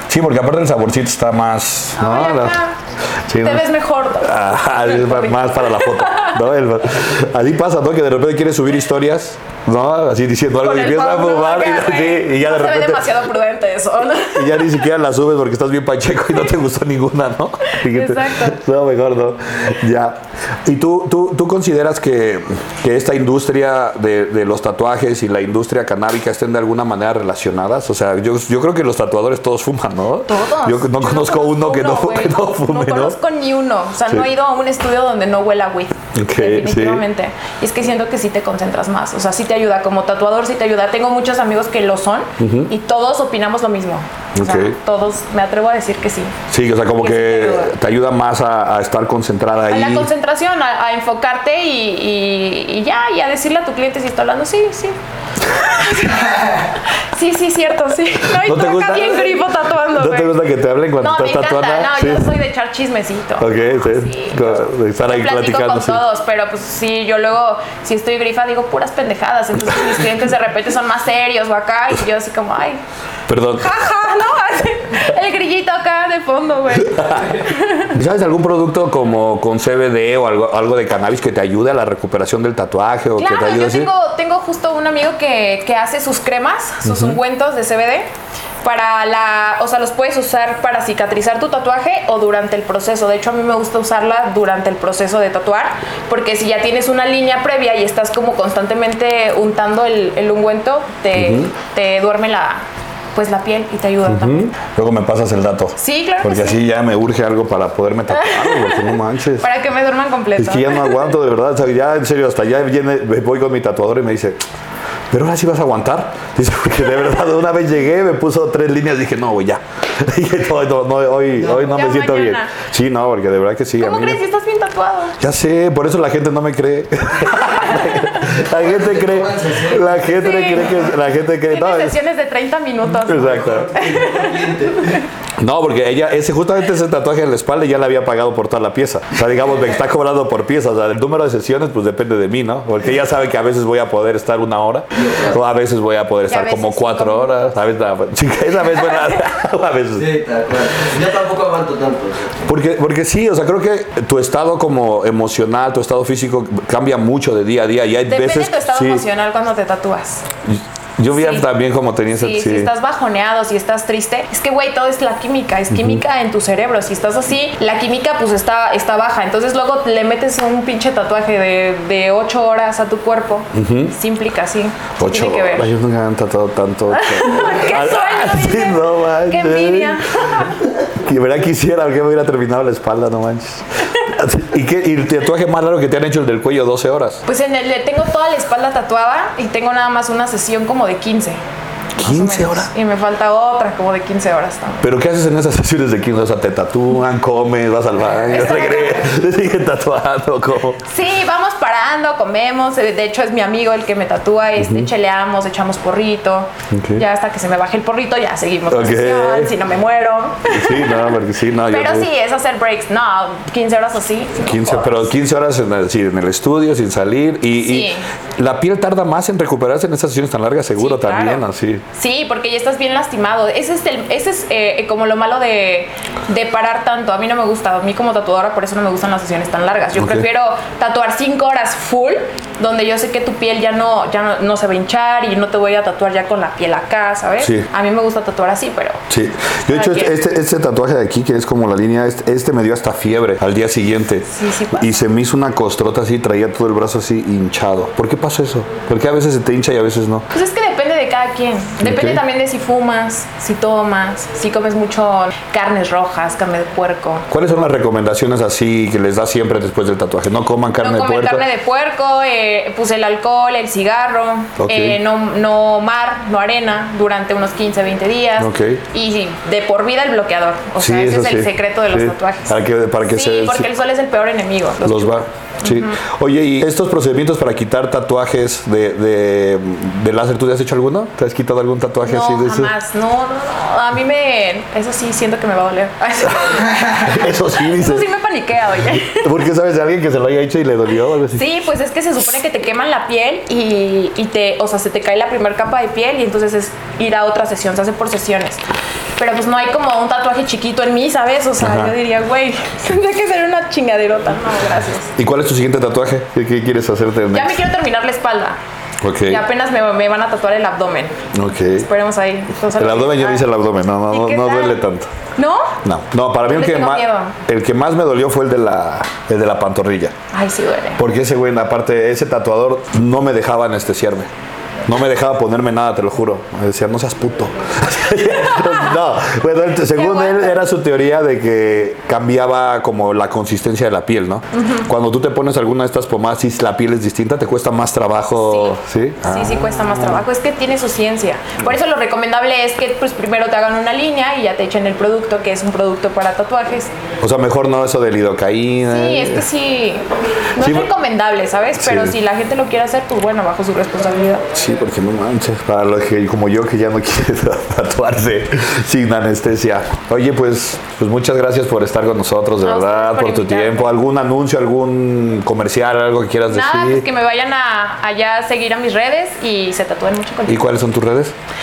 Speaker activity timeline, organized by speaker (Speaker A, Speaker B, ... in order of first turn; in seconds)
Speaker A: 0.1-2.6, 3.3-3.7, 4.2-13.1, 14.3-33.2, 36.1-37.0, 42.4-42.7, 44.4-44.8, 46.5-50.1, 58.3-62.3, 63.4-66.0, 73.3-73.8, 77.9-83.9, 86.8-87.2, 101.2-101.5, 104.1-109.5, 110.4-114.4, 115.1-124.2, 125.2-132.0, 133.1-133.7, 135.4-150.1, 152.5-159.0, 160.5-162.7, 165.7-166.0, 173.5-173.9, 175.0-180.0, 180.8-187.2, 192.0-192.7, 194.8-200.8, 204.6-204.9, 206.7-207.0, 208.7-209.5, 210.5-212.1, 214.4-221.8, 230.0-230.3, 237.4-237.7, 239.1-250.3, 251.8-252.2, 257.3-261.4, 264.6-265.0, 268.4-268.8, 270.8-273.7, 274.8-282.7, 286.6-288.1, 289.0-291.4, 301.6-301.9, 305.2-307.6, 309.0-309.4, 311.3-311.9, 312.8-315.1, 315.8-320.1, 321.0-324.3, 324.9-340.2, 347.2-349.4, 350.6-350.9, 351.8-352.1, 354.5-367.1, 370.5-371.4
Speaker B: 2.0-2.8, 3.4-6.4, 10.6-14.8, 17.7-18.6, 30.3-46.4, 47.0-47.8, 49.7-60.4, 61.0-72.8, 73.6-78.0, 83.2-88.1, 88.6-102.6, 103.1-104.5, 105.8-106.6, 108.1-111.2, 121.6-122.5, 123.8-125.2, 127.4-128.1, 130.1-130.9, 131.5-135.1, 146.3-147.6, 148.7-149.3, 158.1-160.3, 161.1-161.5, 162.1-175.7, 176.9-180.6, 187.3-191.4, 192.0-194.9, 198.3-199.1, 200.8-215.1, 217.6-218.1, 220.8-239.0, 239.7-240.2, 244.3-245.1, 250.3-257.3, 260.8-276.0, 282.0-289.3, 291.3-298.6, 299.2-305.1, 307.3-308.6, 309.2-311.2, 311.8-313.5, 314.1-314.8, 315.4-315.8, 316.4-317.4, 320.3-321.0, 328.5-329.0, 329.9-330.6, 334.5-334.9, 338.4-346.9, 348.9-354.5, 362.6-364.0, 366.5-370.8
Speaker C: 128.2-130.1, 133.1-135.0, 144.9-145.4, 150.0-152.5